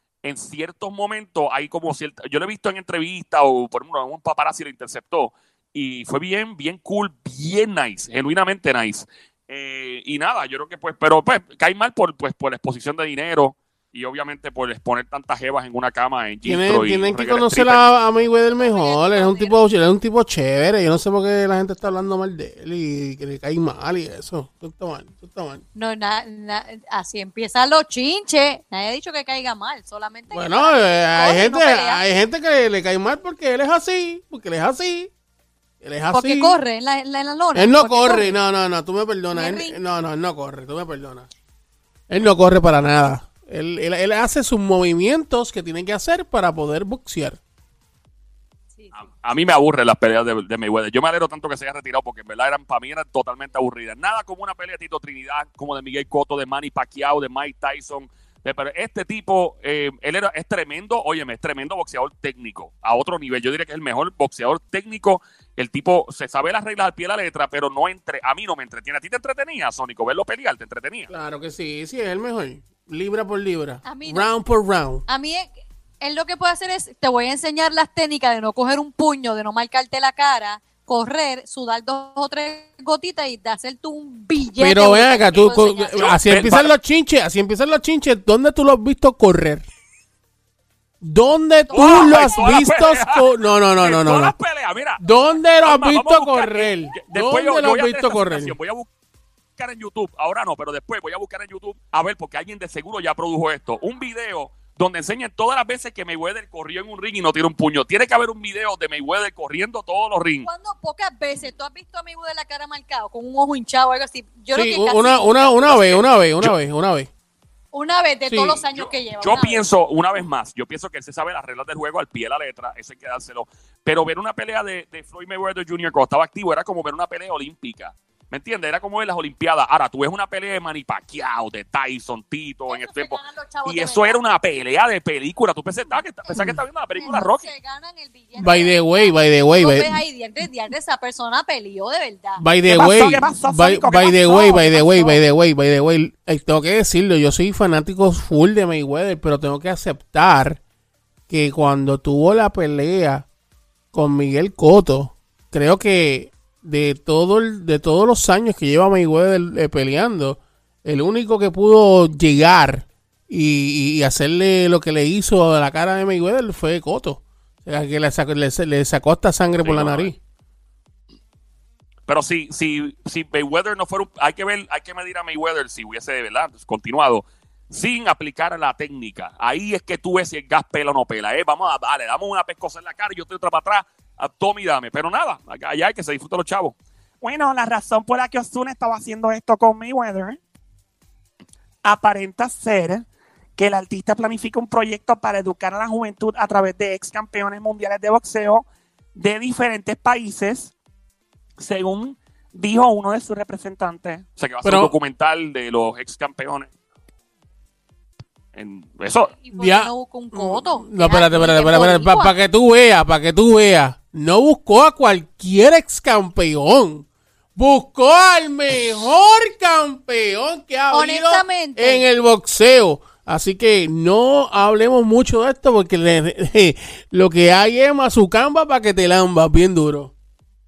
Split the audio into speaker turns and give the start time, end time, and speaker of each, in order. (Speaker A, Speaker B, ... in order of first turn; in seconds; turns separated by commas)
Speaker A: 0.2-17.8, Speaker B: 16.4-25.6, Speaker C: 18.5-19.6, Speaker C: 25.8-32.0, Speaker B: 30.3-35.1, Speaker B: 35.8-36.6, Speaker C: 36.1-38.4, Speaker B: 37.5-41.3, Speaker C: 39.3-39.8, Speaker B: 42.1-47.4, Speaker C: 48.8-49.0, Speaker A: 49.0-71.1, Speaker B: 71.1-75.0, Speaker C: 73.8-74.3, Speaker C: 75.1-86.2, Speaker B: 84.6-89.7, Speaker A: 86.0-86.7, Speaker B: 91.0-94.3, Speaker C: 91.7-92.6, Speaker A: 91.7-93.3, Speaker A: 93.8-95.0, Speaker B: 95.0-98.5, Speaker A: 95.6-98.9, Speaker A: 99.6-110.5, Speaker C: 110.4-115.8, Speaker B: 114.5-117.1, Speaker A: 115.7-116.5, Speaker C: 117.7-119.6, Speaker B: 118.3-118.6, Speaker A: 118.8-137.5, Speaker C: 132.7-134.2, Speaker C: 137.0-142.4, Speaker B: 138.4-140.0, Speaker B: 142.4-150.6, Speaker D: 142.7-145.2, Speaker B: 151.3-153.3, Speaker B: 153.9-170.2, Speaker A: 169.6-170.1, Speaker A: 172.1-186.8, Speaker D: 187.2-190.4, Speaker D: 191.8-193.0, Speaker D: 193.6-200.7, Speaker D: 201.6-204.3, Speaker A: 204.4-206.7, Speaker B: 204.6-204.9, Speaker A: 208.5-209.3, Speaker C: 209.4-212.3, Speaker B: 209.5-230.1, Speaker C: 220.9-222.1